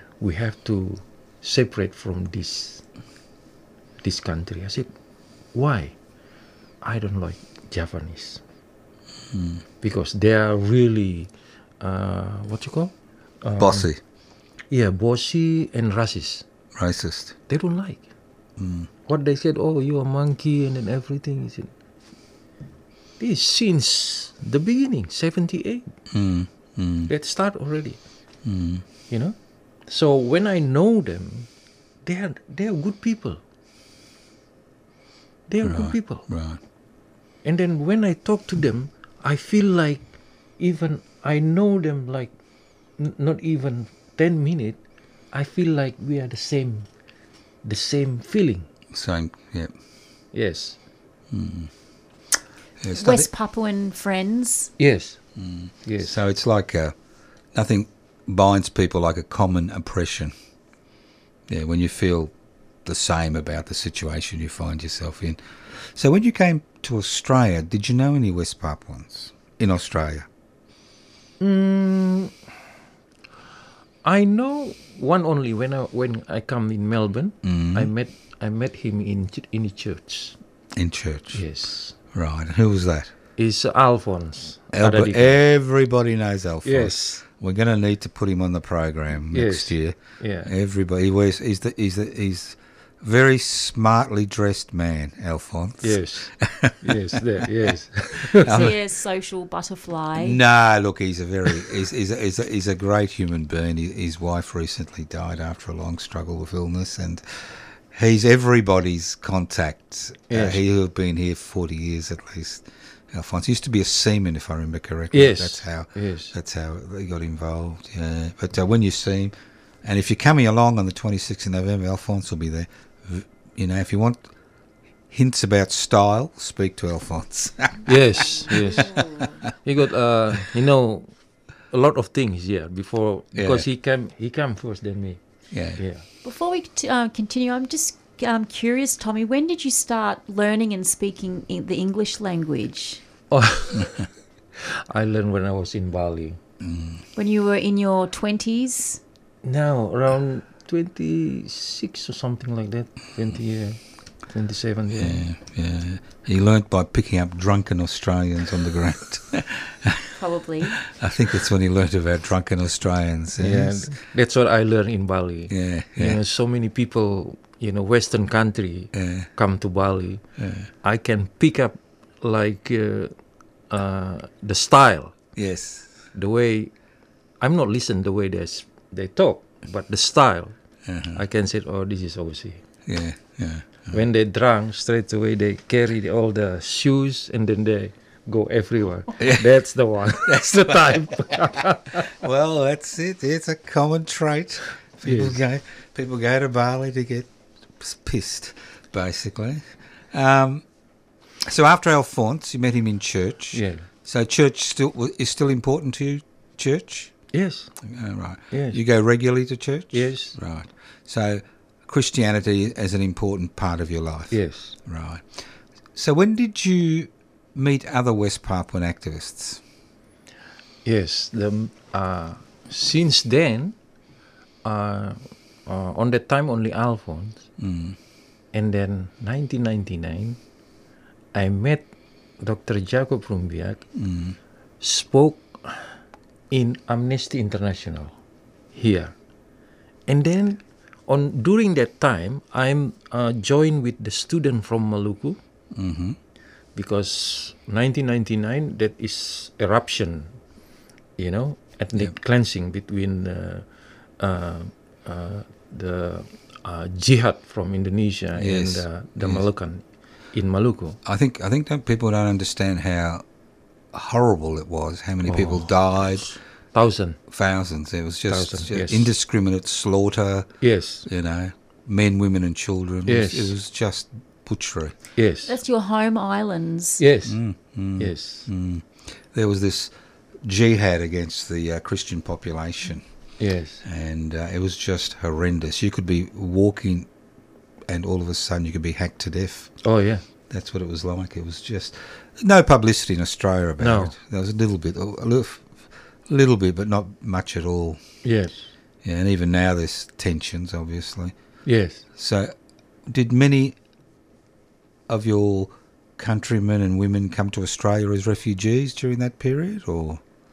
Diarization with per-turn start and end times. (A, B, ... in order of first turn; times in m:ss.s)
0:00.2-0:02.8 A
0:04.0-0:04.9 A
0:05.5-0:06.0 A
0:06.8-0:08.4 A
0:09.3-0:09.6 B
0:09.8-0:11.3 A
0:11.8-0:13.9 A
0:13.6-0:14.0 B
0:14.7-0:16.4 A
0:16.8-0:17.4 B
0:17.5-0:18.1 A
0:18.6-0:18.9 B
0:19.1-0:21.7 A
0:23.2-0:25.9 A
0:26.1-0:27.1 B
0:27.1-0:28.0 A
0:28.4-0:28.8 B
0:29.1-0:29.4 A
0:29.9-0:31.5 A
0:32.0-0:33.4 A
0:35.5-0:36.3 A
0:35.6-0:36.6 B
0:37.4-0:40.1 A
0:40.6-0:42.3 A
0:43.0-0:44.8 A
0:45.3-0:46.9 A
0:47.6-0:48.7 A
0:48.9-0:49.7 B
0:50.3-0:50.8 A
0:51.3-0:51.7 B
0:52.8-0:53.3 B
0:52.9-0:54.7 C
0:54.8-0:55.2 A
0:55.4-0:57.0 B
0:55.8-0:56.1 A
0:57.5-1:00.3 B
1:01.5-1:02.3 B
1:02.8-1:10.3 B
1:11.4-1:12.3 A
1:14.0-1:20.4 A
1:17.4-1:17.9 B
1:20.8-1:21.4 B
1:21.3-1:22.0 A
1:22.1-1:23.1 B
1:23.4-1:25.4 A
1:24.7-1:37.2 B
1:26.6-1:27.2 A
1:29.3-1:30.5 A
1:35.8-1:38.6 A
1:38.3-1:38.8 B
1:38.5-1:40.4 C
1:40.2-2:04.3 B
1:50.3-1:50.6 A
1:55.1-1:56.3 A
2:05.1-2:09.3 B
2:07.9-2:09.0 A
2:08.9-2:09.3 C
2:09.6-2:11.1 A
2:11.7-2:15.2 A
2:13.3-2:13.7 B
2:15.5-2:15.8 B
2:15.8-2:16.0 A
2:16.2-2:23.0 C
2:23.3-2:24.0 A
2:24.6-2:26.4 A
2:26.6-2:27.0 B
2:27.2-2:29.0 C
2:29.4-2:35.2 A
2:34.9-2:40.1 B
2:40.2-2:40.8 C
2:40.7-2:44.0 B
2:43.4-2:50.2 A
2:45.5-2:46.2 B
2:49.0-2:49.3 B
2:50.4-2:50.7 B
2:50.8-2:53.1 A
2:53.7-2:55.2 A
2:55.4-2:55.9 B
2:56.1-2:56.7 A
2:57.4-3:00.6 A
3:00.9-3:01.2 B
3:01.1-3:02.6 A
3:02.9-3:04.0 B
3:03.9-3:12.1 A
3:09.2-3:09.5 B
3:10.1-3:11.0 B
3:12.1-3:17.3 B
3:15.0-3:15.4 A
3:17.8-3:20.6 B
3:21.4-3:27.1 B
3:23.5-3:23.9 A
3:27.3-3:27.7 A
3:27.8-3:35.3 B
3:28.5-3:28.8 A
3:29.9-3:30.4 A
3:34.3-3:34.8 A
3:36.0-3:39.6 B
3:40.8-3:43.8 A
3:44.6-3:47.5 A
3:47.6-3:48.0 B
3:48.5-3:50.4 A
3:51.3-3:51.9 A
3:52.4-3:53.8 A
3:54.0-3:54.4 B
3:54.8-3:55.9 A
3:56.5-3:58.1 A
3:58.7-3:59.1 A
4:00.1-4:05.4 A
4:05.7-4:06.2 B
4:06.8-4:10.4 A
4:11.2-4:13.7 A
4:14.2-4:21.0 A
4:18.4-4:19.4 B
4:21.0-4:23.2 B
4:23.9-4:26.3 B
4:25.2-4:27.2 A
4:27.3-4:30.5 B
4:28.3-4:29.1 A
4:30.6-4:31.1 A
4:31.0-4:35.0 B
4:33.1-4:33.5 A
4:35.2-4:35.5 A
4:35.4-4:37.0 C
4:37.0-4:37.4 A
4:37.3-4:43.0 B
4:38.0-4:38.5 A
4:43.4-4:43.8 A
4:43.8-4:47.1 B
4:47.9-4:49.7 B
4:49.8-4:50.2 A
4:50.5-4:58.0 B
4:53.8-4:54.1 A
4:58.2-4:58.7 A
4:59.0-5:01.4 B
5:01.7-5:02.0 A
5:02.2-5:02.5 B
5:03.1-5:03.8 B
5:05.1-5:10.2 B